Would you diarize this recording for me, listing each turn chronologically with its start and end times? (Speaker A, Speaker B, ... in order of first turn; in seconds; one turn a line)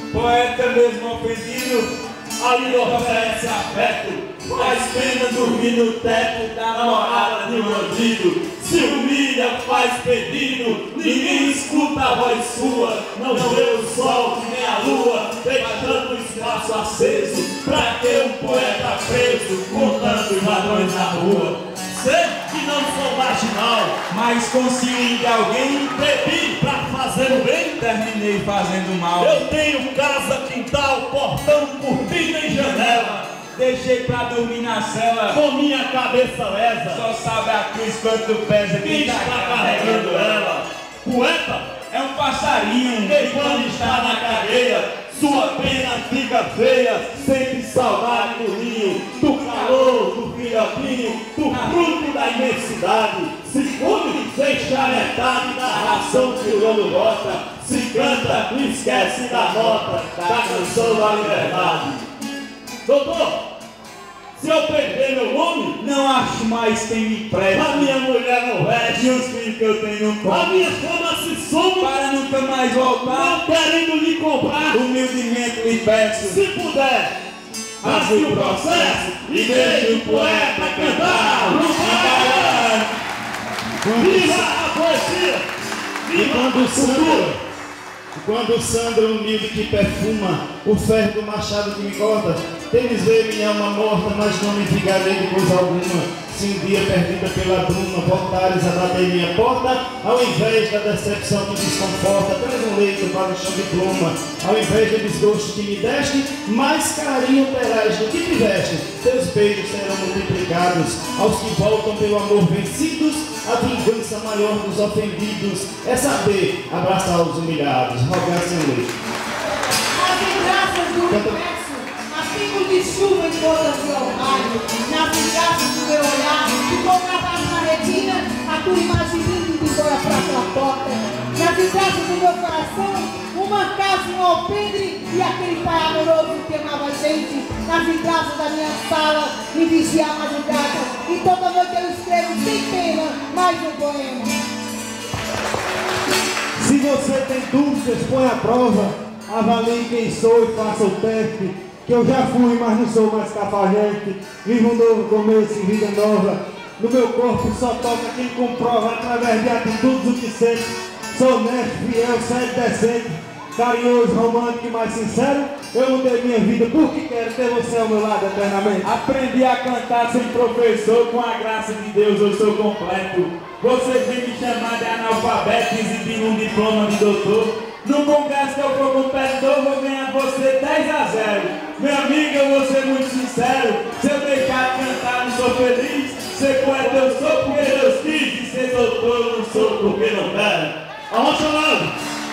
Speaker A: 0.1-1.9
Speaker B: 2.4-24.0
Speaker A: 2.6-10.0
Speaker A: 10.7-21.6
Speaker A: 24.1-26.0
Speaker B: 25.9-27.8
Speaker A: 27.5-29.5
Speaker B: 29.2-33.2
Speaker A: 32.3-35.4
Speaker B: 35.3-37.0
Speaker A: 36.9-40.6
Speaker B: 38.8-41.7
Speaker A: 41.9-46.1
Speaker B: 43.0-62.0
Speaker A: 47.7-52.5
Speaker A: 53.8-61.8
Speaker B: 62.9-63.4
Speaker B: 64.4-65.8
Speaker A: 65.8-67.9
Speaker B: 67.5-69.3
Speaker A: 68.8-70.7
Speaker B: 70.2-72.0
Speaker A: 71.8-73.4
Speaker B: 73.0-74.8
Speaker A: 74.5-76.4
Speaker B: 76.1-77.1
Speaker A: 77.8-82.9
Speaker B: 77.8-82.9
Speaker C: 83.8-84.5
Speaker B: 83.9-85.5
Speaker B: 86.0-87.3
Speaker C: 86.1-87.4
Speaker C: 88.1-118.9
Speaker D: 119.9-144.4
Speaker C: 121.1-121.4
Speaker E: 146.6-168.9
Speaker A: 168.8-190.2
Speaker B: 186.6-191.9